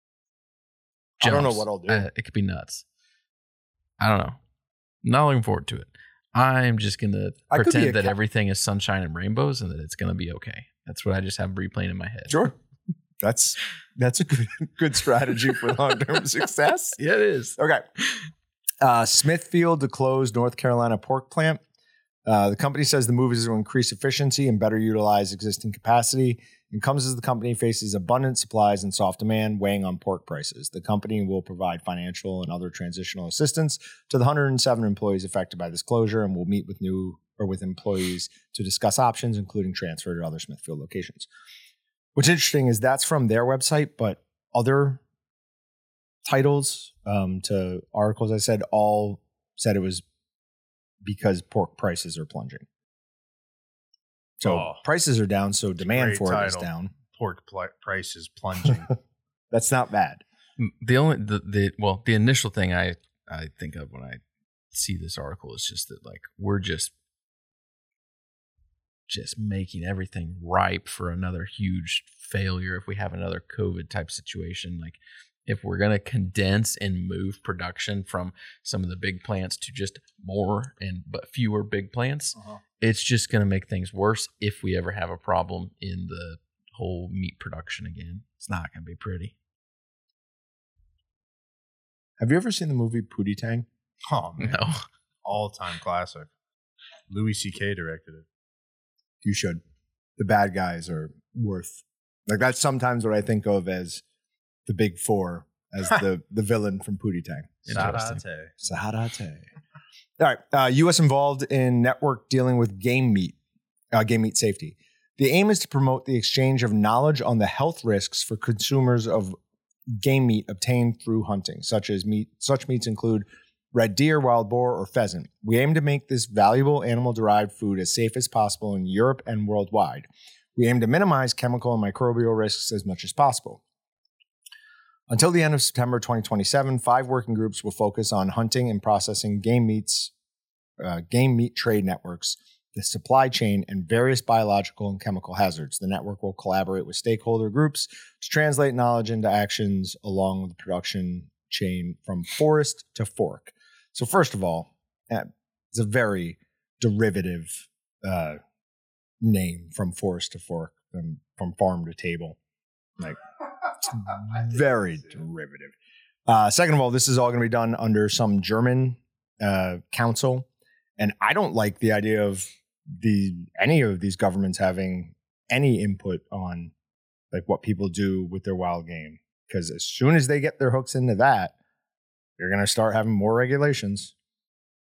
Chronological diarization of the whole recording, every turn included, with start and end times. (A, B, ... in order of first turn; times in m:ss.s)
0:01.2-0:02.1 A
0:01.2-0:02.8 B
0:04.0-0:04.4 B
0:05.0-0:12.4 B
0:07.5-0:08.2 A
0:12.3-0:12.6 A
0:13.2-0:17.0 A
0:17.0-0:17.6 B
0:17.6-0:17.9 A
0:18.8-0:21.6 A
0:22.2-0:41.3 A
0:42.2-0:45.0 A
0:46.2-0:50.0 A
0:51.0-0:52.6 A
0:54.4-0:56.9 A
0:54.4-0:54.8 C
0:55.8-0:58.9 C
0:59.5-1:00.2 A
1:00.6-1:04.2 B
1:04.7-1:06.9 B
1:09.1-1:29.3 B
1:32.2-1:33.7 A
1:34.1-1:34.7 C
1:34.4-1:34.8 B
1:35.2-1:36.3 C
1:37.1-1:38.2 C
1:39.2-1:39.6 A
1:40.2-1:44.0 A
1:44.6-1:47.9 A
1:47.6-1:48.2 B
1:47.7-1:48.5 C
1:48.6-1:49.4 A
1:50.2-1:53.4 A
1:53.9-1:59.4 A
1:59.9-2:13.6 A
2:15.1-2:20.1 A
2:20.8-2:38.4 A
2:39.2-2:42.4 A
2:43.8-2:45.7 A
2:46.3-2:50.5 A
2:51.0-2:56.7 A
2:57.3-3:01.5 A
3:02.4-3:04.1 A